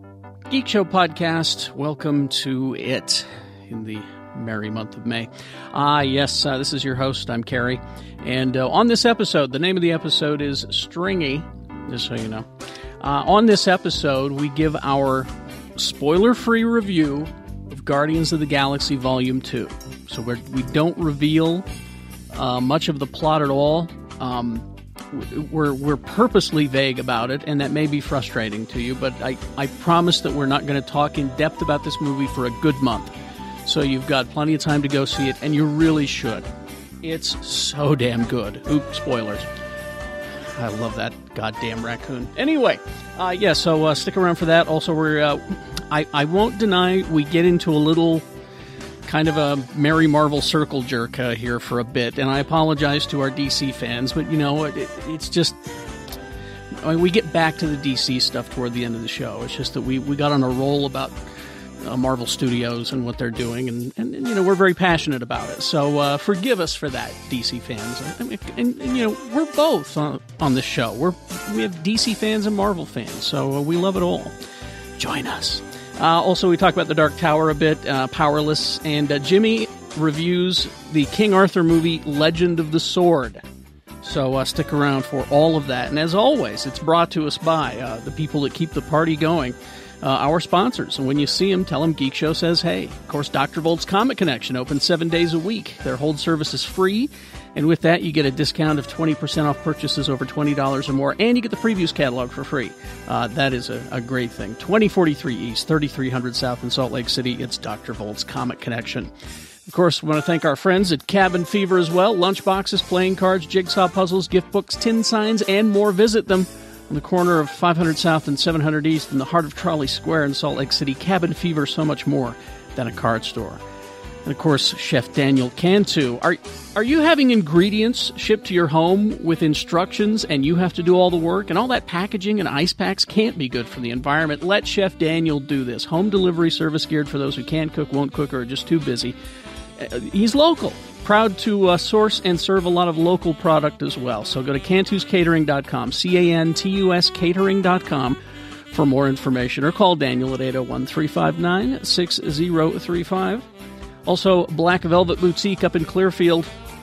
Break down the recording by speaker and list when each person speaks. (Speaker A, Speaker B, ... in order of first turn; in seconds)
Speaker A: 0.5-12.5, 13.0-21.7, 22.3-33.1, 33.6-36.5, 37.0-39.5, 40.5-48.2, 49.0-55.6, 56.8-61.1, 61.8-74.3, 75.0-83.4, 84.0-109.1, 109.7-123.6, 124.2-139.2, 139.8-148.2, 148.7-153.4, 154.1-156.5